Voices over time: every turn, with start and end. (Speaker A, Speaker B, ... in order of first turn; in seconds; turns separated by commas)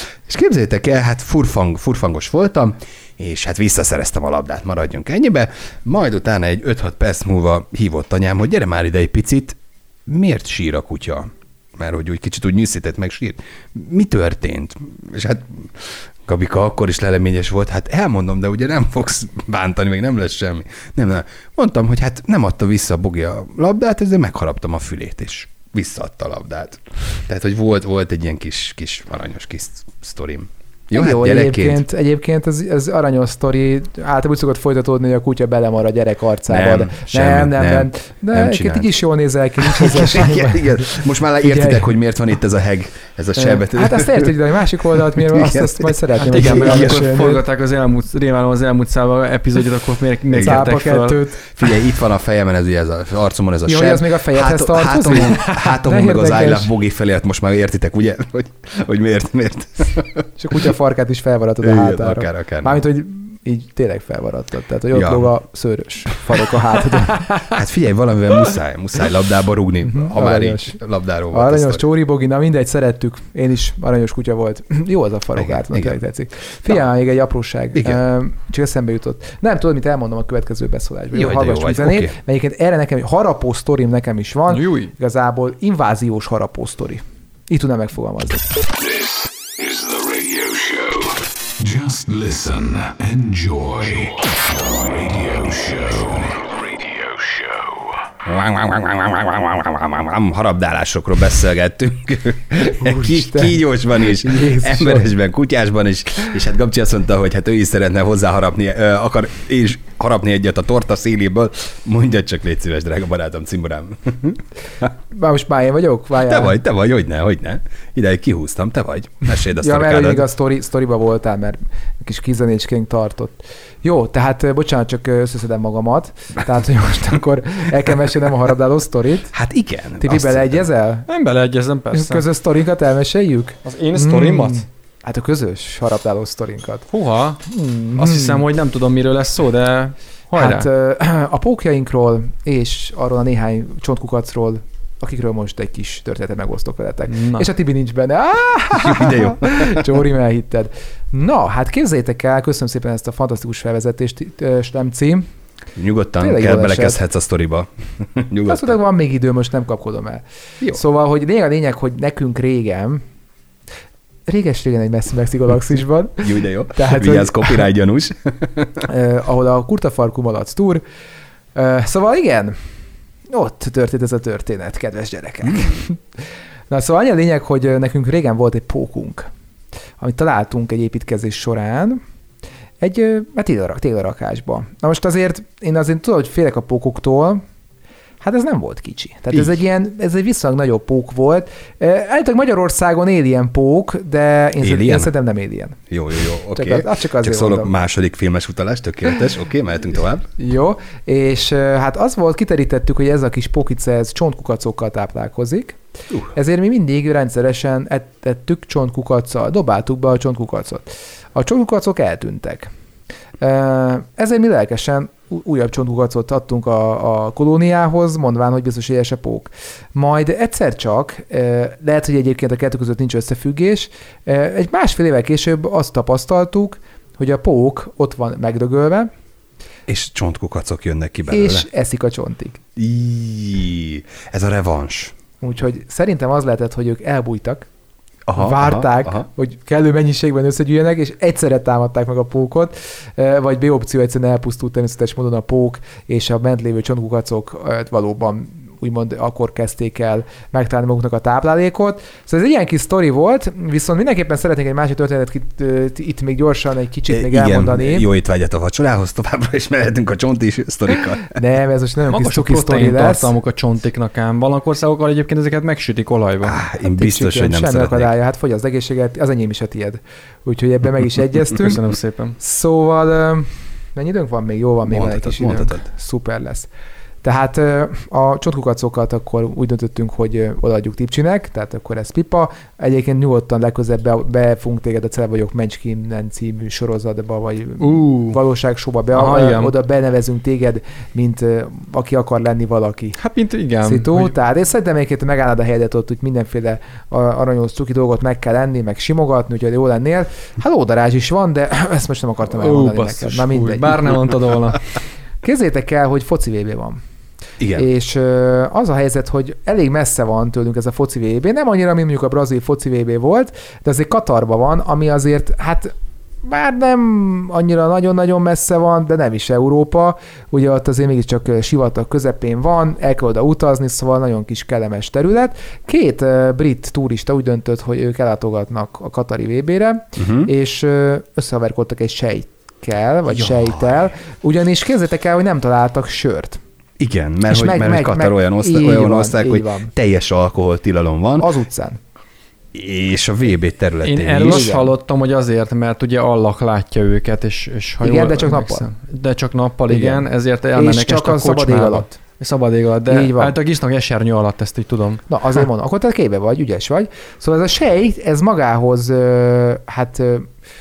Speaker A: 0.3-31.8, Speaker B: 30.9-41.9, Speaker A: 36.5-38.9, Speaker A: 39.6-44.4, Speaker B: 43.4-47.4, Speaker A: 44.9-47.0, Speaker C: 46.3-51.2, Speaker A: 50.3-50.7, Speaker B: 50.4-51.4, Speaker A: 51.6-60.3, Speaker B: 53.6-56.7, Speaker B: 60.4-67.3, Speaker A: 61.6-62.8, Speaker A: 64.9-65.3, Speaker A: 67.4-71.8, Speaker B: 69.8-70.8, Speaker B: 71.3-88.4, Speaker A: 75.4-76.0, Speaker A: 77.8-78.0, Speaker A: 81.1-82.1, Speaker C: 84.5-84.9, Speaker D: 88.7-98.1, Speaker A: 98.2-114.9, Speaker B: 102.7-105.1, Speaker B: 115.1-116.6, Speaker A: 116.2-120.3, Speaker B: 119.6-129.3, Speaker A: 129.3-130.7, Speaker B: 130.0-131.1, Speaker C: 131.1-132.2, Speaker B: 131.9-136.9, Speaker C: 133.6-134.6, Speaker C: 136.9-140.7, Speaker B: 137.5-138.4, Speaker B: 140.3-155.3, Speaker C: 147.1-147.4, Speaker A: 148.7-149.9, Speaker A: 155.8-158.8, Speaker B: 156.2-157.0, Speaker B: 158.5-163.0, Speaker B: 164.3-167.6, Speaker A: 166.2-168.8, Speaker B: 168.8-170.8, Speaker B: 171.6-172.6, Speaker B: 173.3-176.0, Speaker A: 175.4-175.8, Speaker B: 176.7-179.3, Speaker B: 180.0-182.0, Speaker B: 182.8-187.4, Speaker B: 188.2-195.8, Speaker A: 194.6-195.1, Speaker A: 195.9-200.3, Speaker B: 196.5-197.7, Speaker B: 200.4-205.8, Speaker B: 206.3-212.7, Speaker B: 213.4-229.1, Speaker A: 229.9-231.7, Speaker B: 231.3-232.6, Speaker A: 232.8-235.1, Speaker B: 235.4-237.7, Speaker A: 238.3-239.3, Speaker B: 238.4-258.1, Speaker A: 257.1-261.4, Speaker B: 261.2-263.3, Speaker C: 262.1-266.6, Speaker A: 266.4-268.1, Speaker B: 266.9-271.8, Speaker C: 271.6-272.4, Speaker B: 272.4-276.7, Speaker A: 274.9-275.8, Speaker B: 277.2-293.2, Speaker C: 287.8-288.4, Speaker C: 289.1-289.7, Speaker C: 293.2-294.3, Speaker B: 293.8-304.1, Speaker C: 302.5-304.8, Speaker B: 305.4-307.0, Speaker A: 307.6-307.9, Speaker B: 307.7-336.6, Speaker A: 330.2-330.5, Speaker A: 333.3-333.9, Speaker A: 337.0-341.5, Speaker B: 337.5-339.9, Speaker B: 341.4-342.0, Speaker A: 342.7-344.7, Speaker C: 344.0-355.2, Speaker B: 344.4-344.9, Speaker B: 348.0-348.9, Speaker B: 349.9-352.1, Speaker B: 353.1-353.6, Speaker B: 355.3-360.5